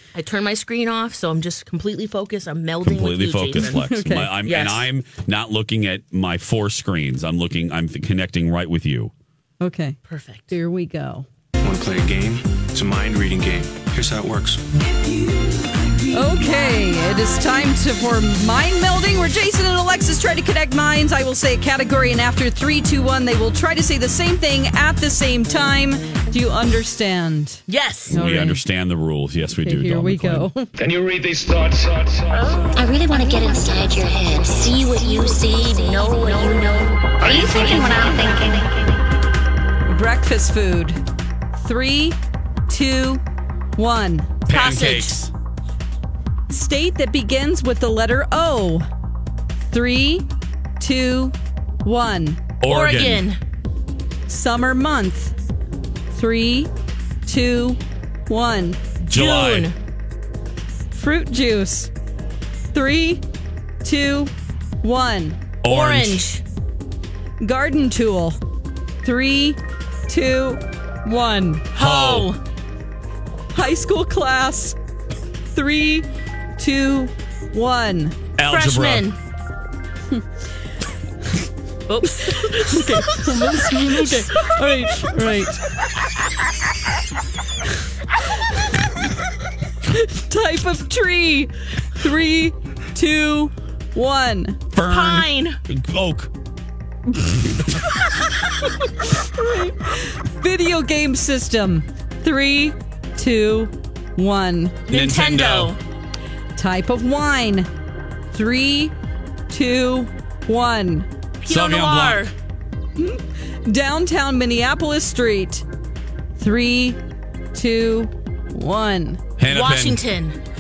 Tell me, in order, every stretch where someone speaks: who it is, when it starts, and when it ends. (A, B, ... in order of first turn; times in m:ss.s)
0:00.1-0:03.8 A
0:02.8-0:09.1 B
0:03.6-0:04.3 C
0:04.4-0:04.9 A
0:09.6-0:10.0 C
0:10.1-0:10.5 A
0:10.5-0:11.3 C
0:11.6-0:14.6 D
0:16.1-0:28.6 C
0:27.7-0:28.1 A
0:28.1-0:30.5 B
0:29.6-0:30.7 C
0:30.8-0:32.8 E
0:32.8-0:36.5 F
0:33.0-0:38.4 A
0:37.2-0:37.6 E
0:37.5-0:38.4 F
0:39.9-0:41.0 C
0:41.6-0:42.2 C
0:42.7-0:43.2 C
0:43.8-0:44.3 C
0:44.5-0:45.3 B
0:44.5-0:45.2 A
0:46.5-0:48.9 C
0:49.7-0:50.3 C
0:50.8-0:52.4 C
0:52.6-0:53.2 B
0:52.7-0:53.4 A
0:54.3-0:55.3 C
0:56.1-0:56.7 C
0:57.3-0:58.8 C
0:59.0-0:59.8 A
0:59.1-0:59.7 B
1:00.9-1:01.9 C
1:02.7-1:03.2 C
1:03.8-1:05.4 C
1:05.6-1:06.3 B
1:05.7-1:06.4 A
1:07.4-1:08.4 C
1:09.0-1:11.7 C
1:11.7-1:12.4 A
1:11.8-1:12.3 B
1:13.5-1:14.8 C
1:15.5-1:16.1 C
1:16.6-1:18.2 C
1:18.4-1:19.1 B
1:18.5-1:19.2 A
1:21.9-1:24.2 A
1:22.1-1:25.6 C
1:29.9-1:34.6 C
1:34.7-1:36.3 B
1:34.9-1:35.6 A
1:37.2-1:37.7 B
1:39.2-1:44.8 C
1:44.9-1:45.8 A
1:44.9-1:45.8 B
1:46.6-1:47.7 C
1:48.3-1:48.9 C
1:49.5-1:51.1 C
1:51.4-1:52.3 A
1:51.5-1:52.2 B
1:53.0-1:55.6 C
1:56.4-1:57.0 C
1:57.5-1:59.2 C
1:59.4-2:00.0 B
1:59.5-2:00.4 A